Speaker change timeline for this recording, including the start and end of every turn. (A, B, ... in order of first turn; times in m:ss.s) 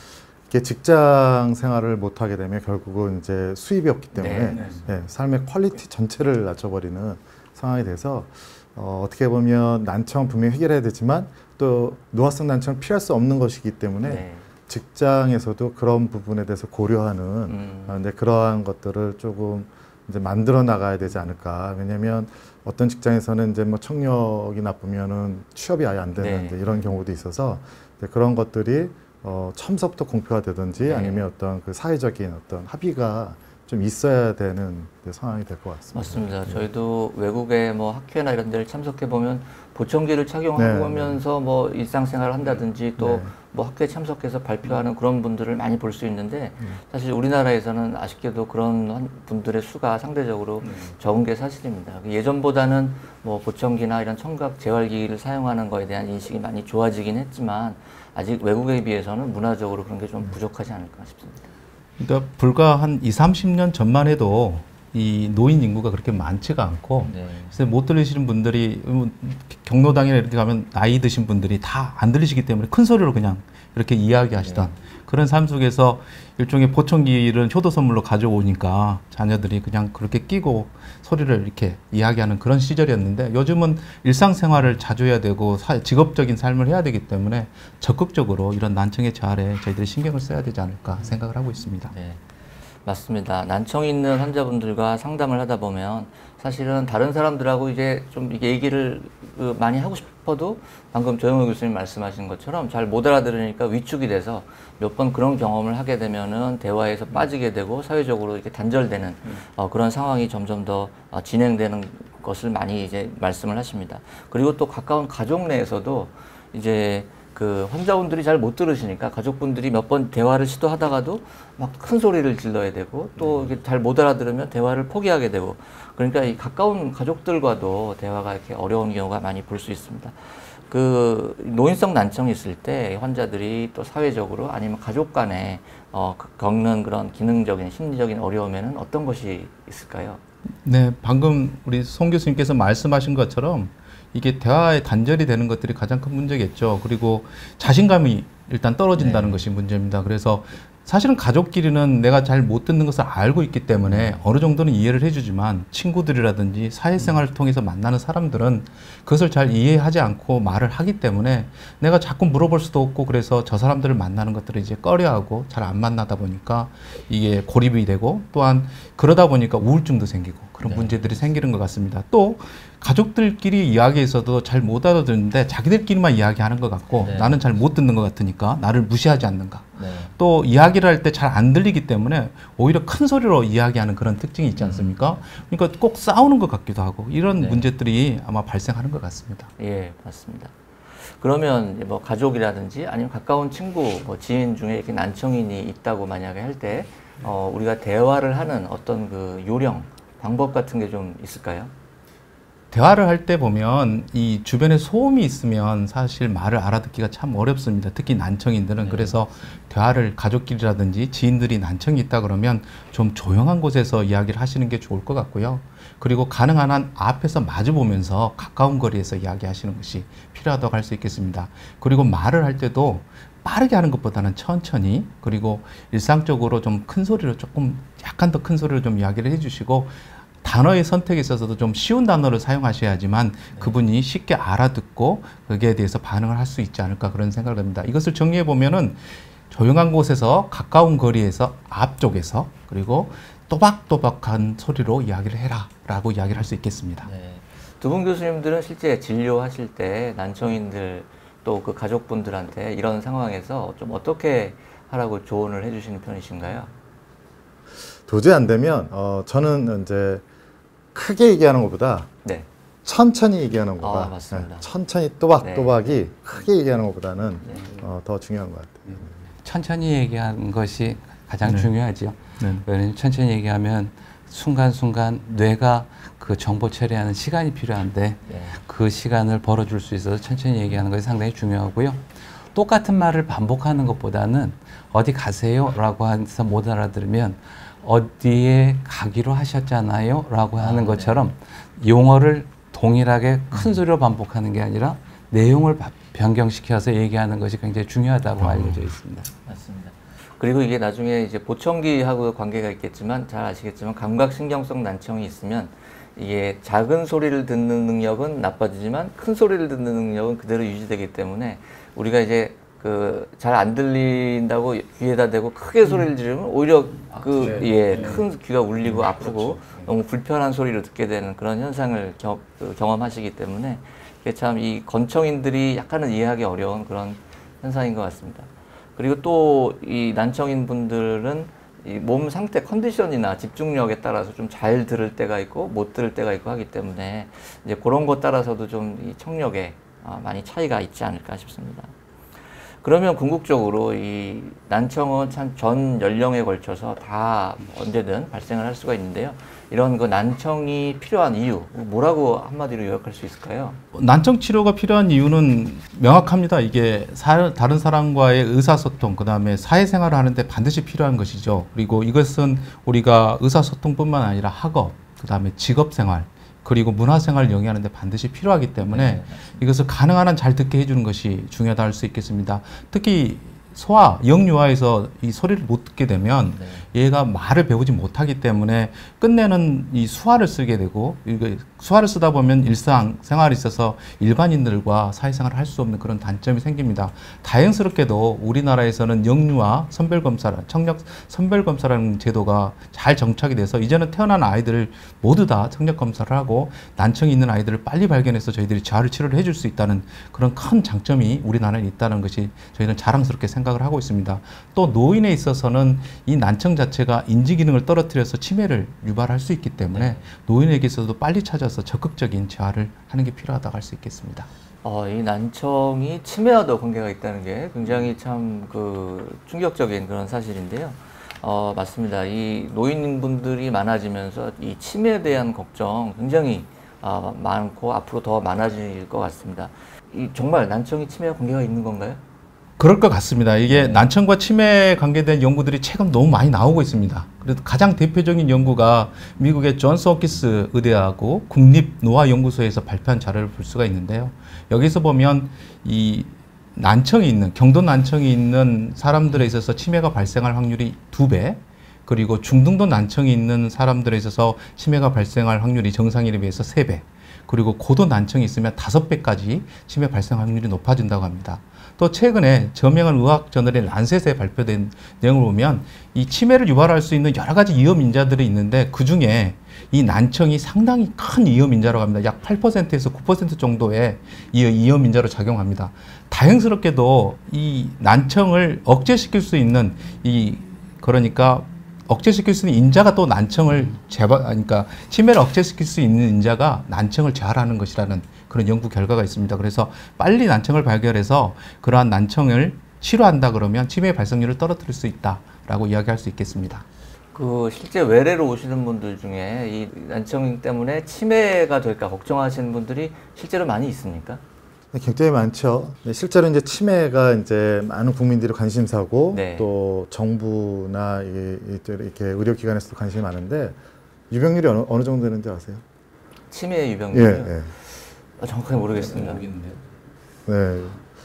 0:00.5-0:36.6 A
0:04.1-0:04.6 B
0:04.5-0:04.9 C
0:14.0-0:14.4 B
0:17.5-0:18.0 B
0:26.2-0:26.6 B
0:30.8-0:31.2 B
0:35.9-1:01.5 B
0:40.6-0:41.2 A
0:43.0-0:43.3 A
1:02.0-1:31.9 C
1:07.0-1:07.5 B
1:14.4-1:14.7 B
1:31.9-1:32.2 B
1:32.8-2:10.2 B
2:10.7-2:20.2 B
2:20.6-3:09.5 C
2:29.0-2:29.4 B
2:33.9-2:34.2 B
2:50.6-2:50.9 B
2:56.9-2:57.4 B
2:59.8-3:00.1 B
3:04.6-3:05.0 B
3:07.4-3:07.6 B
3:09.6-3:21.7 B
3:22.7-4:07.1 C
3:28.8-3:29.2 B
4:07.0-4:16.7 B
4:18.0-4:20.2 A
4:20.9-4:22.1 A
4:22.8-4:29.1 A
4:23.8-4:24.6 B
4:25.4-4:26.0 B
4:27.4-4:27.7 B
4:29.4-4:59.3 D
4:31.4-4:31.7 C
4:32.4-4:32.6 C
4:38.3-4:38.6 B
4:50.6-4:51.3 B
4:59.4-5:41.9 B
5:17.4-5:18.2 C
5:18.9-5:19.8 C
5:42.8-5:53.8 B
5:53.9-6:54.5 C
6:08.9-6:09.4 B
6:16.5-6:16.9 B
6:49.9-6:50.2 B
6:54.8-7:12.2 B
7:12.8-8:16.8 C
7:13.7-7:14.0 B
8:17.3-8:24.4 B
8:24.9-8:33.8 A
8:29.3-8:29.7 B
8:34.3-8:35.8 A
8:36.5-8:39.5 B
8:37.1-8:37.7 A
8:39.4-8:39.8 C
8:40.4-8:41.0 A